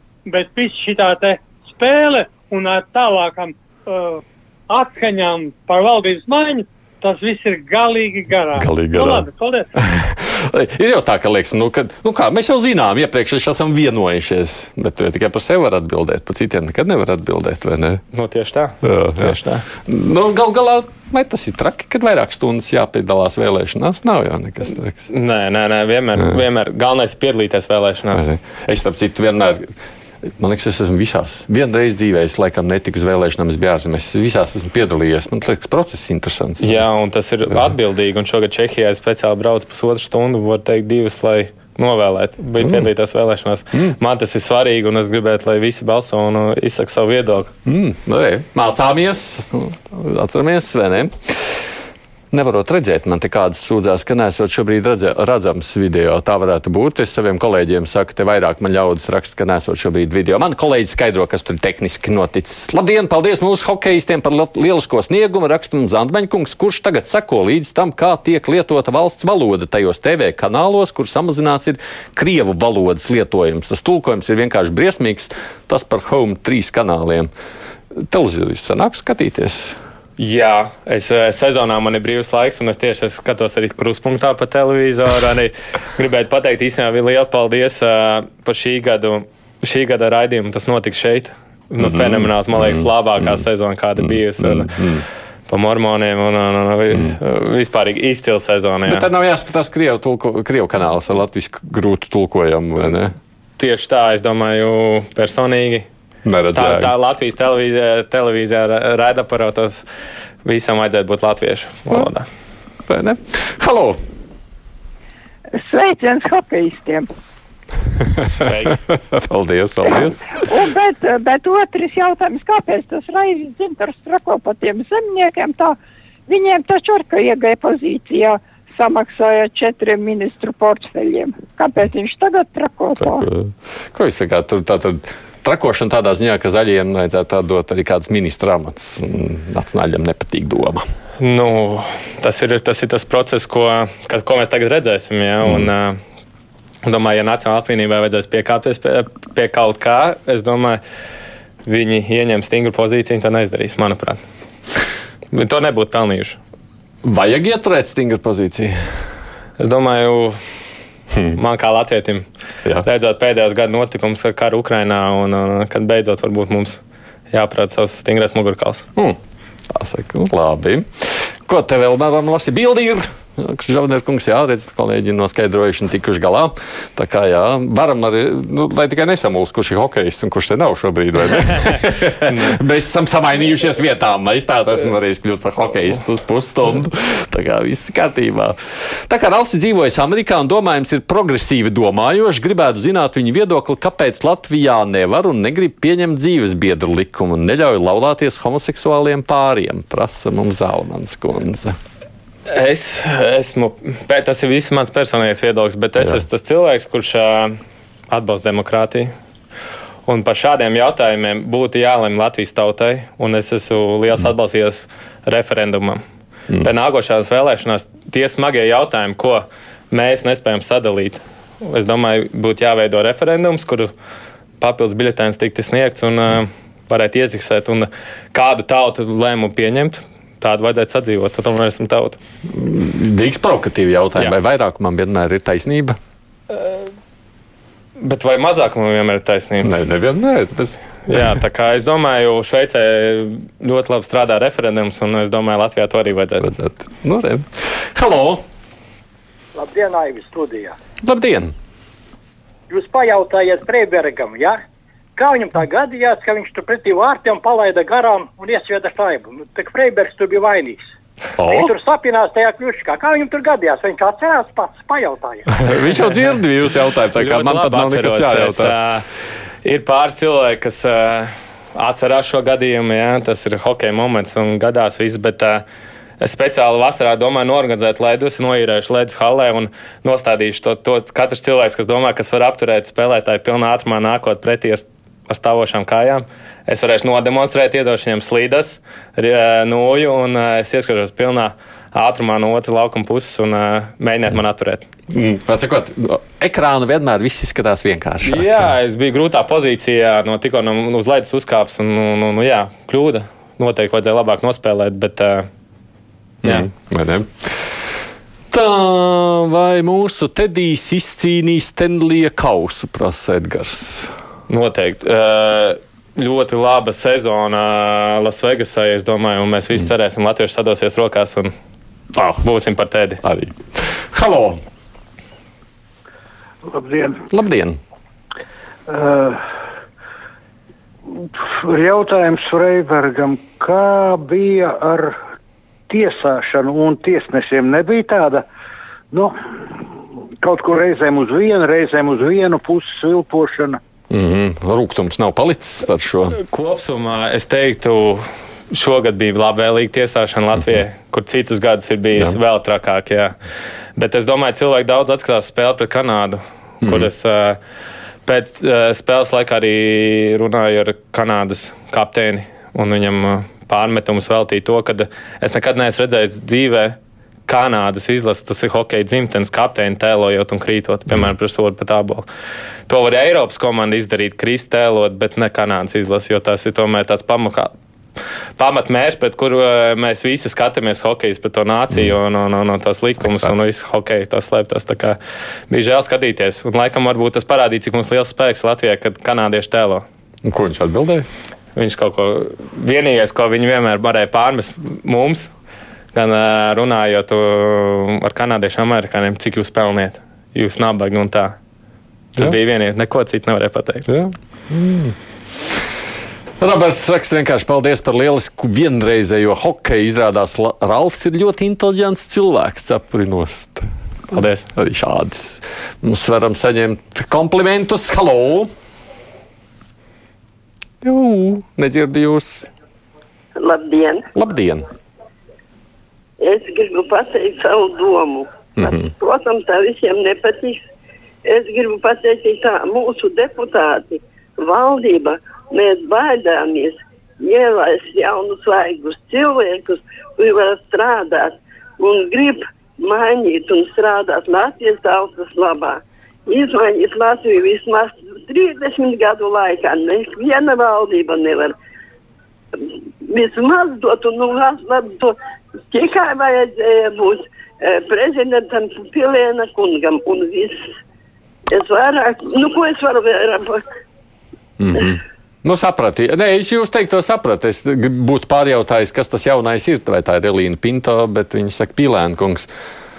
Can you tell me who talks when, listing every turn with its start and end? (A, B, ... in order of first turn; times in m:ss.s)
0:00.3-0:09.7 A
0:08.6-0:09.3 B
0:09.8-0:18.0 B
0:18.1-0:19.6 C
0:18.8-0:25.0 B
0:25.1-0:28.3 C
0:28.1-0:29.7 B
0:30.3-0:36.8 B
0:36.6-0:47.5 C
0:42.6-0:42.9 B
0:47.6-0:51.6 B
0:52.3-1:17.3 B
1:17.9-1:19.8 B
1:20.2-1:34.7 C
1:31.8-1:33.4 B
1:34.0-1:35.0 B
1:35.5-1:39.1 C
1:38.9-1:43.2 B
1:43.6-1:45.9 C
1:46.2-1:46.9 B
1:46.5-1:49.8 C
1:50.4-1:52.3 C
1:52.9-1:54.0 B
1:55.6-1:57.1 D
1:58.4-1:58.8 C
1:58.9-2:00.3 B
2:00.4-2:05.8 D
2:06.3-2:13.3 D
2:13.0-2:20.9 B
2:21.2-2:26.0 C
2:26.8-2:30.8 C
2:31.7-2:34.2 C
2:35.3-2:36.4 C
2:37.0-2:38.8 B
2:39.6-2:40.4 C
2:41.1-2:41.4 B
2:41.3-2:42.3 C
2:42.8-2:46.8 C
2:47.3-2:48.9 C
2:49.7-3:21.8 B
3:22.5-3:27.6 C
3:28.1-3:29.1 C
3:30.1-3:36.0 C
3:36.6-3:43.9 C
3:44.6-3:52.2 C
3:52.5-3:56.0 B
3:56.5-3:56.9 C
3:58.0-3:59.7 C
3:59.6-4:01.3 B
4:01.1-4:06.5 C
4:06.4-4:08.4 B
4:09.6-4:10.8 E
4:11.0-4:11.5 B
4:12.7-4:14.6 E
4:15.2-4:20.8 E
4:21.4-4:21.7 B
4:21.5-4:25.6 E
4:25.6-4:28.7 B
4:27.2-4:29.1 C
4:29.6-4:35.6 C
4:36.2-4:54.9 C
4:55.1-4:58.5 B
4:58.2-5:05.5 C
5:06.4-5:07.9 B
5:08.5-5:14.1 B
5:14.5-5:21.5 C
5:22.2-5:22.4 B
5:22.4-5:23.2 C
5:23.2-5:24.6 B
5:26.7-5:27.2 F
5:27.3-5:27.8 B
5:28.9-5:29.4 F
5:31.2-5:35.2 F
5:35.9-5:38.4 F
5:40.4-5:43.8 F
5:44.1-5:46.4 B
5:46.4-5:53.4 C
5:54.0-5:57.6 C
5:56.8-5:57.1 B
5:58.3-6:12.3 C
6:12.9-6:17.7 C
6:18.6-6:25.2 C
6:23.2-6:23.5 B
6:25.7-6:30.0 C
6:30.4-6:31.3 B
6:31.8-6:35.5 C
6:36.1-6:41.6 C
6:42.4-6:44.1 C
6:44.1-6:45.2 B
6:46.6-6:53.9 B
6:54.3-6:54.7 C
6:54.7-6:58.7 B
7:01.0-7:02.7 B
7:03.6-7:04.3 G
7:04.3-7:04.9 B
7:06.4-7:10.8 G
7:08.8-7:09.1 B
7:11.4-7:31.8 G
7:33.2-7:35.4 G
7:35.9-7:40.9 G
7:41.7-7:43.8 G
7:44.8-7:52.7 B